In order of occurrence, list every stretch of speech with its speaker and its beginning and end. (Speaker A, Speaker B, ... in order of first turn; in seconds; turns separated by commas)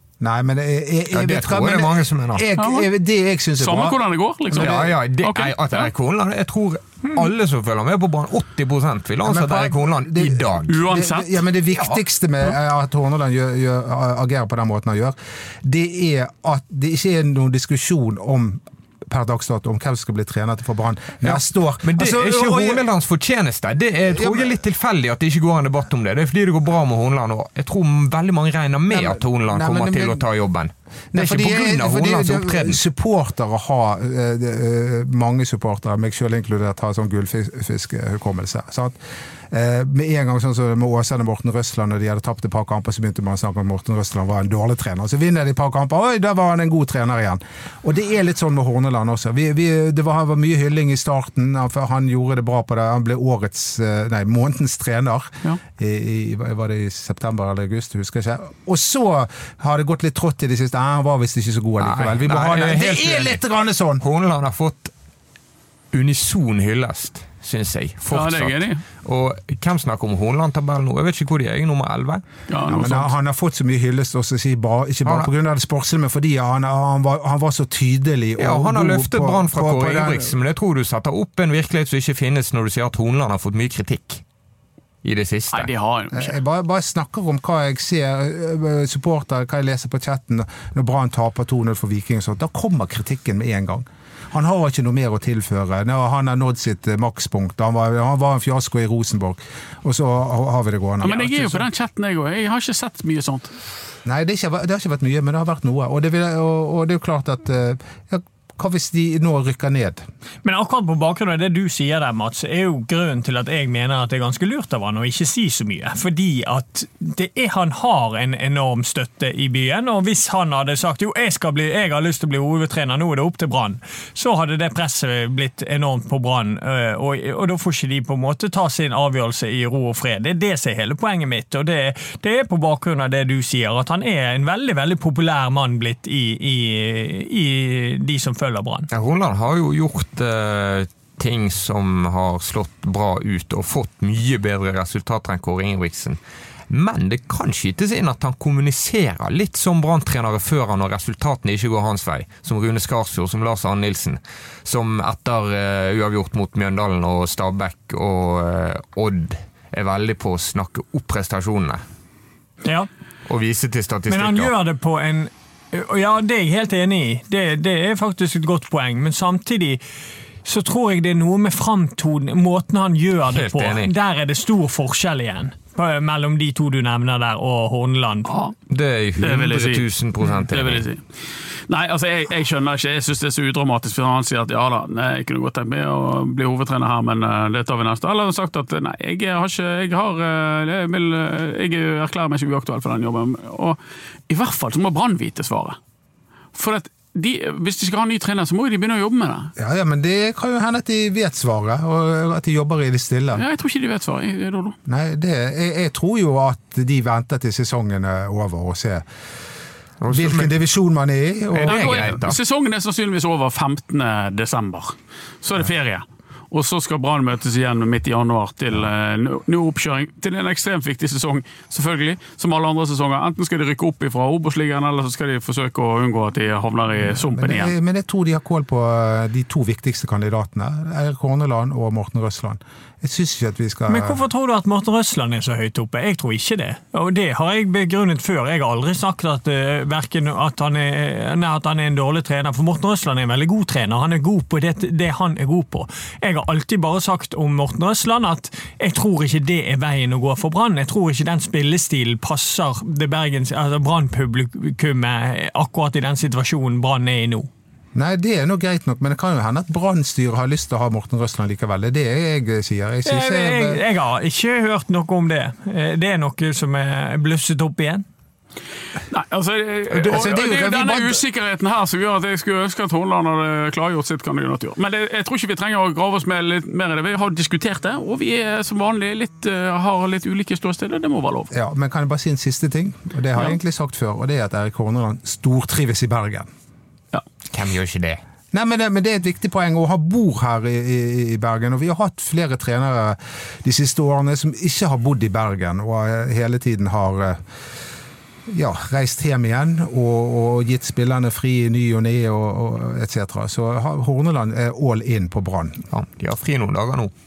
Speaker A: 0.2-4.0, Speaker B: 1.1-2.4, Speaker C: 2.6-2.9, Speaker C: 3.6-5.9, Speaker A: 4.5-4.9, Speaker B: 4.5-10.8, Speaker A: 9.2-22.8, Speaker C: 10.7-11.4, Speaker B: 21.2-32.8, Speaker A: 24.1-24.6, Speaker A: 28.9-30.2, Speaker A: 31.1-39.0, Speaker A: 39.5-64.0, Speaker B: 61.8-63.4, Speaker B: 64.0-64.9, Speaker B: 65.9-72.2, Speaker C: 68.1-68.8, Speaker C: 72.5-73.1, Speaker A: 72.6-80.3, Speaker B: 78.4-84.2, Speaker B: 85.0-85.7, Speaker C: 85.5-86.3, Speaker A: 86.1-101.7, Speaker C: 101.0-103.5, Speaker A: 104.0-110.0, Speaker D: 110.4-138.9, Speaker B: 138.9-146.2, Speaker B: 146.7-161.8, Speaker D: 162.6-162.9, Speaker B: 163.2-164.5, Speaker D: 164.1-169.8, Speaker D: 170.4-178.4, Speaker B: 173.3-173.9, Speaker B: 178.7-180.8, Speaker C: 179.2-181.0, Speaker C: 181.7-193.8, Speaker C: 194.3-195.8, Speaker C: 196.5-199.5, Speaker A: 199.6-203.4, Speaker C: 203.3-204.8, Speaker A: 204.8-209.0, Speaker B: 210.0-210.5, Speaker A: 210.1-212.2, Speaker B: 211.5-212.4, Speaker C: 211.6-227.7, Speaker A: 227.3-234.2, Speaker D: 233.9-257.5, Speaker A: 257.9-263.8, Speaker D: 263.0-268.0, Speaker C: 269.1-281.5, Speaker A: 269.9-271.2, Speaker A: 281.5-286.5, Speaker B: 287.5-288.2, Speaker A: 288.5-297.4, Speaker A: 298.5-305.8, Speaker B: 305.9-307.1